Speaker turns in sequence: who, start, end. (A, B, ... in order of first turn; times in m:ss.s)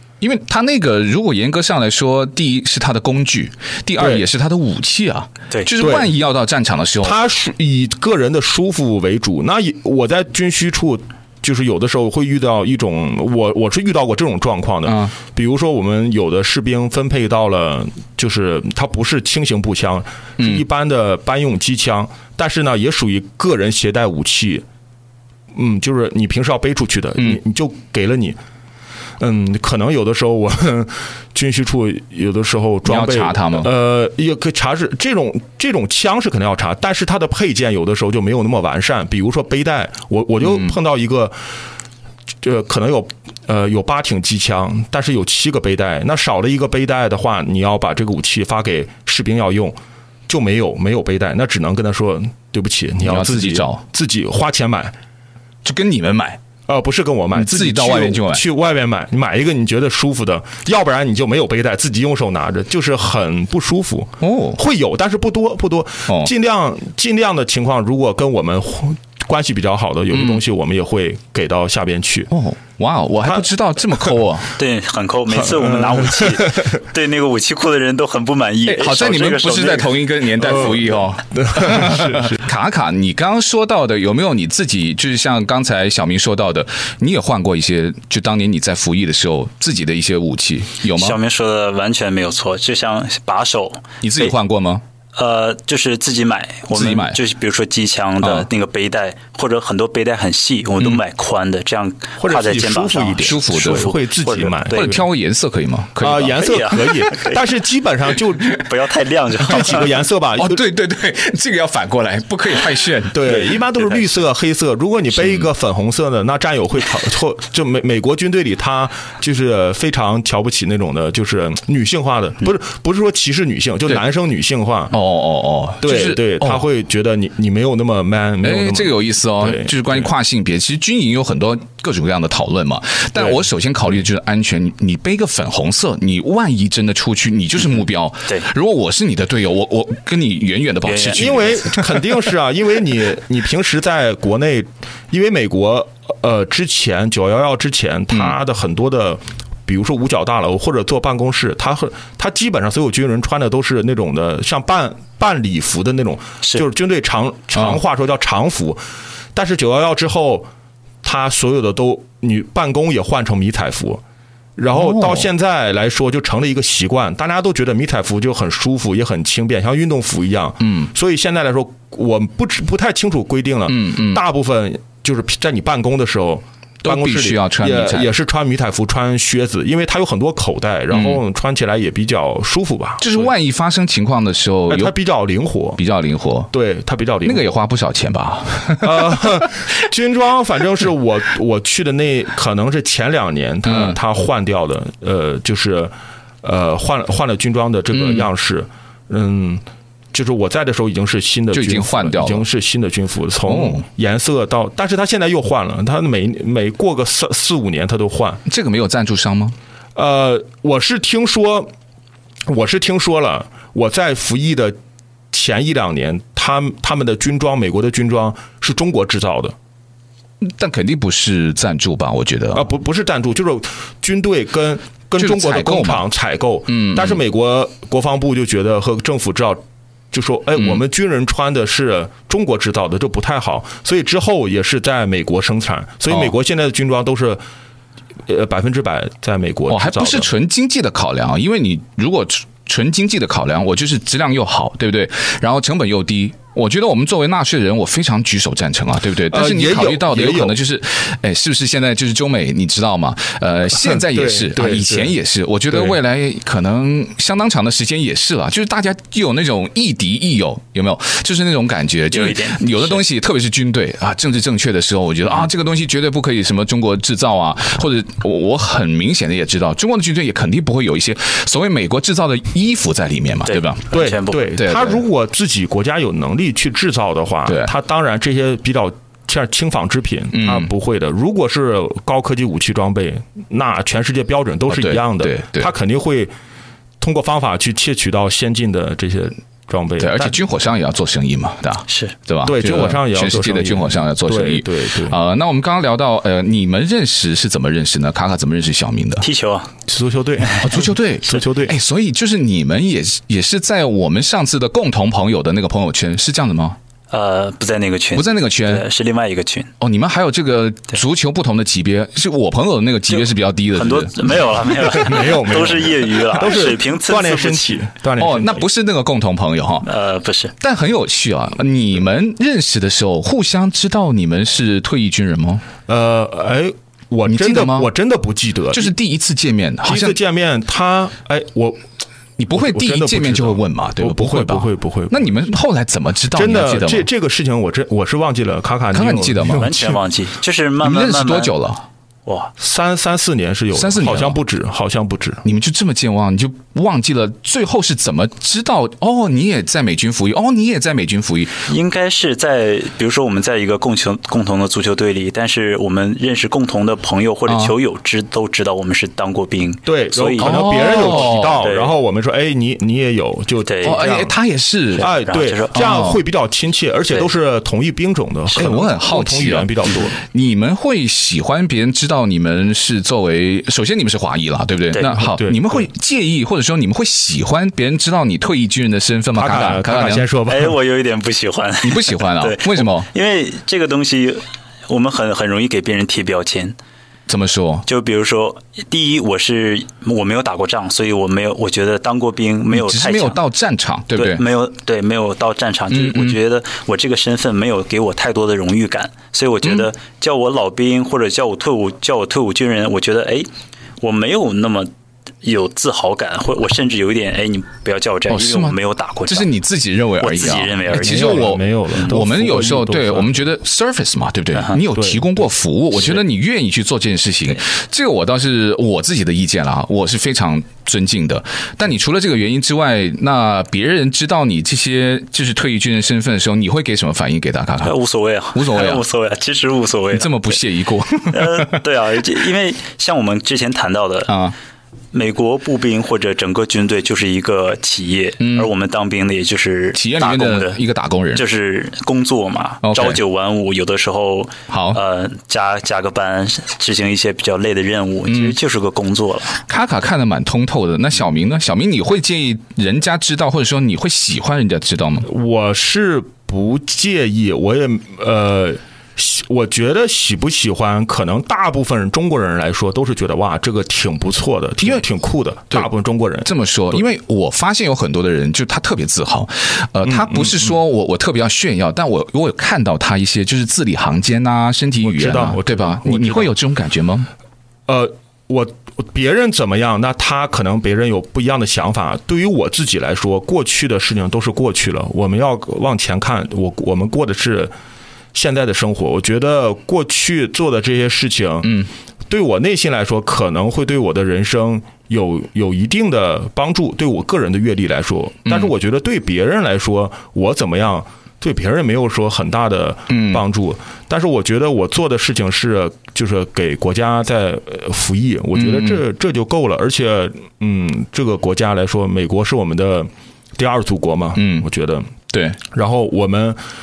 0:00.2-0:07.2 A
0:04.0-0:04.2 B
0:05.8-0:06.1 B
0:07.0-0:24.6 B
0:14.8-0:15.1 A
0:20.4-0:20.6 A
0:25.5-0:28.4 B
0:29.2-0:41.3 B
0:32.8-0:33.7 A
0:40.4-0:40.7 A
0:42.4-0:49.8 B
0:50.3-0:54.9 B
0:53.0-0:53.8 A
0:55.6-0:56.4 A
0:56.7-1:12.3 B
0:57.3-0:58.4 A
1:04.2-1:04.6 A
1:10.1-1:10.4 A
1:12.3-1:14.5 A
1:14.6-1:19.9 C
1:15.4-1:16.7 B
1:18.6-1:31.2 A
1:20.4-1:22.4 B
1:30.9-1:34.3 C
1:34.0-1:34.8 A
1:35.2-1:45.0 C
1:36.7-1:37.2 A
1:38.2-1:38.5 A
1:42.2-1:45.0 B
1:43.2-1:43.9 A
1:44.7-1:47.0 A
1:46.0-1:48.6 B
1:46.4-1:47.4 C
1:48.5-1:50.0 C
1:49.5-1:50.6 B
1:50.4-1:53.5 A
1:53.1-2:05.0 B
1:55.2-1:55.5 A
2:04.9-2:06.6 A
2:05.8-2:10.1 B
2:08.4-2:22.0 A
2:13.2-2:13.4 B
2:20.8-2:21.5 C
2:21.1-2:38.8 B
2:37.5-2:37.8 A
2:39.3-2:40.5 B
2:41.0-2:44.0 B
2:44.6-3:03.3 B
2:44.7-2:45.3 A
2:50.6-2:50.9 A
2:53.7-2:54.2 A
2:56.8-2:58.1 A
3:00.9-3:01.2 A
3:03.0-3:04.9 A
3:04.7-3:05.8 B
3:05.8-3:06.5 A
3:06.5-3:07.5 B
3:07.2-3:09.2 A
3:08.8-3:28.4 B
3:13.6-3:14.0 A
3:17.9-3:18.3 A
3:21.5-3:22.4 A
3:23.4-3:23.8 A
3:28.4-3:29.6 A
3:30.0-3:31.7 B
3:32.5-3:34.8 B
3:35.3-3:39.5 B
3:40.4-3:42.7 A
3:42.5-3:57.4 B
3:45.2-3:46.0 A
3:46.7-3:47.2 A
3:50.6-3:50.8 A
3:56.1-3:56.3 A
3:58.3-4:00.3 B
3:59.7-4:33.9 A
4:09.3-4:10.5 B
4:13.7-4:15.1 B
4:15.7-4:16.0 B
4:22.1-4:23.0 C
4:33.4-4:34.4 C
4:33.9-4:46.3 B
4:34.6-4:35.0 A
4:40.3-4:40.7 A
4:44.7-4:45.7 A
4:47.0-4:50.4 B
4:50.0-4:59.2 A
4:51.9-4:52.1 C
4:52.4-4:55.2 B
4:59.2-4:59.7 C
4:59.9-5:01.7 B
5:00.6-5:06.8 A
5:07.1-5:09.7 C
5:08.1-5:08.8 A
5:09.8-5:14.1 A
5:13.1-5:17.8 C
5:14.8-5:18.7 B
5:18.2-5:19.9 A
5:19.8-5:20.5 C
5:20.6-5:25.6 A
5:25.9-5:28.9 B
5:27.3-5:27.9 A
5:28.7-5:30.2 A
5:29.8-5:31.8 B
5:32.4-5:37.1 A
5:32.5-5:35.2 B
5:36.3-5:40.0 B
5:38.9-5:39.8 A
5:39.6-5:41.5 C
5:40.8-5:41.8 A
5:42.2-5:42.5 C
5:42.6-5:45.4 B
5:43.7-5:44.4 A
5:45.4-5:51.6 A
5:51.7-6:01.9 C
5:57.5-5:57.7 A
5:59.8-6:04.3 B
6:00.4-6:01.7 A
6:03.6-6:04.1 C
6:03.8-6:05.1 A
6:04.9-6:05.9 C
6:05.0-6:10.2 B
6:05.7-6:06.2 A
6:08.5-6:20.2 A
6:15.2-6:15.9 B
6:19.3-6:20.8 B
6:20.5-6:26.8 C
6:21.8-6:23.1 A
6:27.3-6:27.8 A
6:27.8-6:33.4 C
6:32.7-6:34.4 A
6:34.1-6:43.5 C
6:35.9-6:36.4 A
6:44.0-6:44.9 C
6:45.4-6:49.5 C
6:48.3-7:07.9 A
6:50.2-6:52.0 C
6:50.9-6:53.5 B
6:54.9-6:55.4 B
7:07.8-7:10.5 C
7:08.5-7:09.0 A
7:10.1-7:11.8 A
7:11.3-7:14.3 C
7:14.3-7:14.5 A
7:15.1-7:20.8 C
7:18.4-7:18.7 A
7:19.9-7:21.4 A
7:21.3-7:29.6 C
7:22.8-7:23.2 A
7:24.7-7:25.0 A
7:28.3-7:28.6 A
7:29.6-7:35.3 A
7:35.2-7:47.0 B
7:46.4-7:57.3 A
7:50.0-7:50.8 B
7:55.0-7:56.5 B
7:57.9-8:07.7 B
8:08.3-8:35.1 B
8:18.5-8:18.7 A
8:23.1-8:23.4 A
8:28.5-8:29.0 A
8:34.4-8:34.6 A
8:35.3-8:35.6 A
8:35.7-8:36.6 B